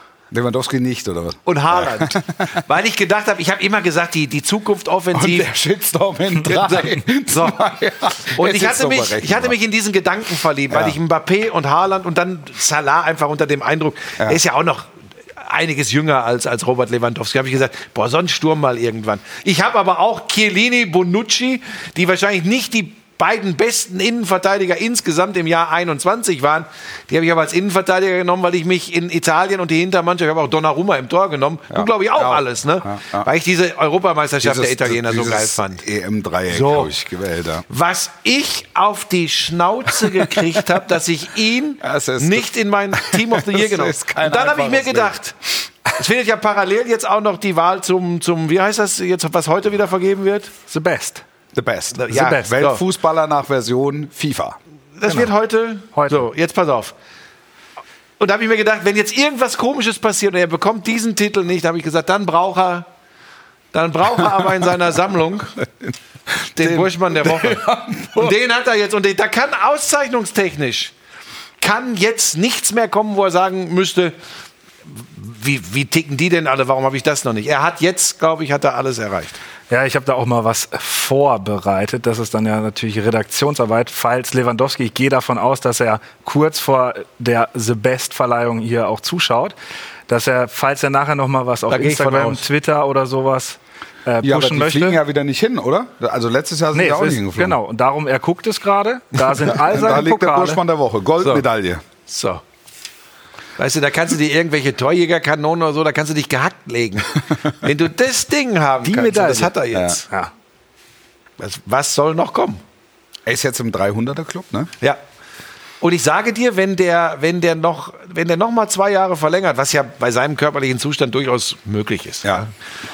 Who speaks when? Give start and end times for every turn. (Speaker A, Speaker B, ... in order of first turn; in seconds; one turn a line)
Speaker A: 0.3-2.6
Speaker B: 1.4-5.5
Speaker A: 5.1-9.5
Speaker B: 6.4-7.6
Speaker B: 8.2-35.8
Speaker A: 10.7-11.0
Speaker A: 31.7-33.3
Speaker A: 34.4-37.6
Speaker B: 36.5-36.9
Speaker B: 37.7-45.4
Speaker A: 41.8-45.1
Speaker B: 45.9-50.5
Speaker C: 50.7-51.2
Speaker A: 51.5-54.6
Speaker B: 51.9-52.8
Speaker C: 52.1-52.4
Speaker B: 55.0-56.9
Speaker C: 55.9-56.3
Speaker B: 58.2-62.9
Speaker B: 63.7-65.6
Speaker A: 66.5-68.3
Speaker B: 66.5-70.9
Speaker B: 71.6-74.1
Speaker B: 74.9-79.4
Speaker C: 79.7-89.5
Speaker C: 90.1-95.0
Speaker B: 91.7-92.5
Speaker A: 94.2-97.6
Speaker C: 96.7-100.6
Speaker A: 99.5-101.8
Speaker B: 102.1-102.4
Speaker B: 103.6-110.0
Speaker C: 108.8-109.5
Speaker A: 109.7-110.0
Speaker B: 111.4-112.6
Speaker A: 113.2-114.7
Speaker B: 115.8-122.5